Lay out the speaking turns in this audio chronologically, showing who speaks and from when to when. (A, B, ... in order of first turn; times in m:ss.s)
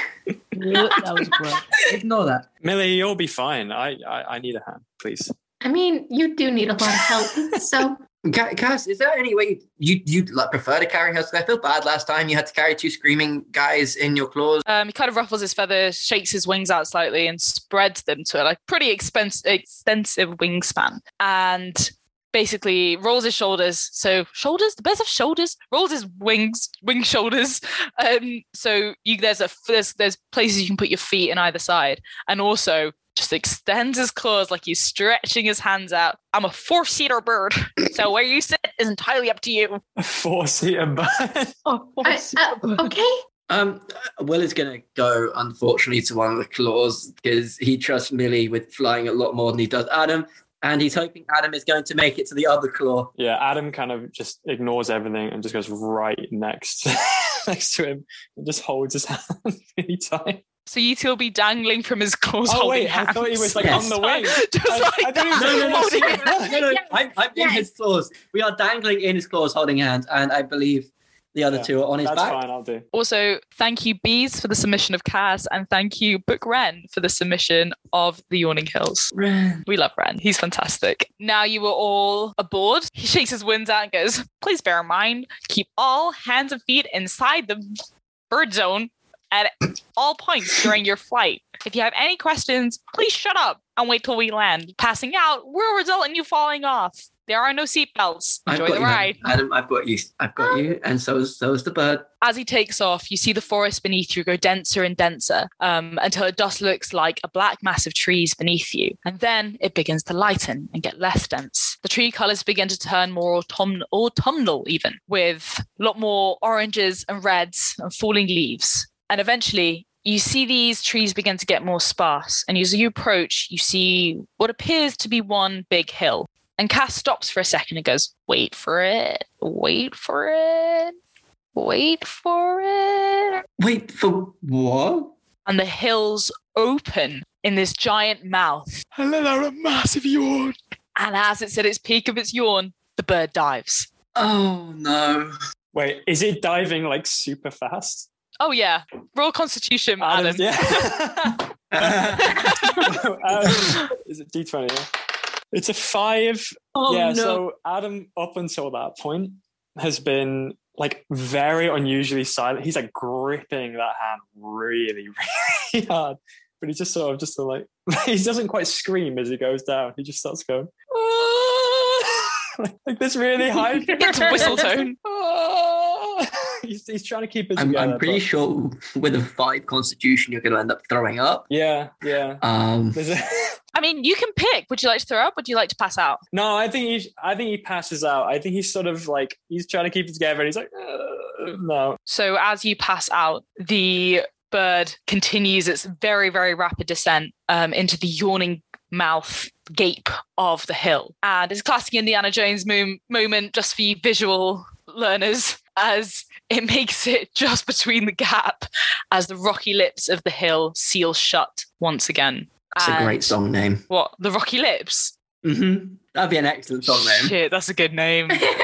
0:00.7-0:01.6 A
0:01.2-0:02.5 B
0:02.6-0:05.3 C
0:05.6-0:08.0 A
0:08.2-0:14.6 B
0:14.7-0:39.8 D
0:40.0-0:41.6 C
0:41.6-0:42.9 E
0:42.0-0:43.2 A
0:43.5-0:53.1 B
0:53.2-1:00.4 C
1:00.7-1:06.4 D
1:02.5-1:06.6 C
1:03.6-1:03.9 B
1:05.3-1:12.4 B
1:11.5-1:12.9 C
1:12.9-1:19.1 D
1:19.1-1:19.6 B
1:19.7-1:27.6 D
1:28.3-1:39.2 D
1:38.5-1:42.1 B
1:42.2-2:11.0 D
2:11.6-2:13.4 D
2:13.6-2:15.1 B
2:15.5-2:23.9 D
2:24.2-2:25.3 B
2:25.7-2:28.1 C
2:28.4-2:30.8 D
2:30.0-2:34.9 C
2:31.7-2:32.5 B
2:32.3-2:32.8 D
2:35.5-2:58.2 C
2:36.8-2:37.4 E
2:54.0-2:55.0 D
2:57.6-3:01.5 B
3:01.5-3:03.6 C
3:02.4-3:03.0 B
3:03.7-3:06.2 D
3:06.3-3:12.0 C
3:12.1-3:33.4 D
3:32.8-3:33.8 B
3:33.9-3:35.1 D
3:35.4-3:37.3 B
3:36.9-3:38.5 D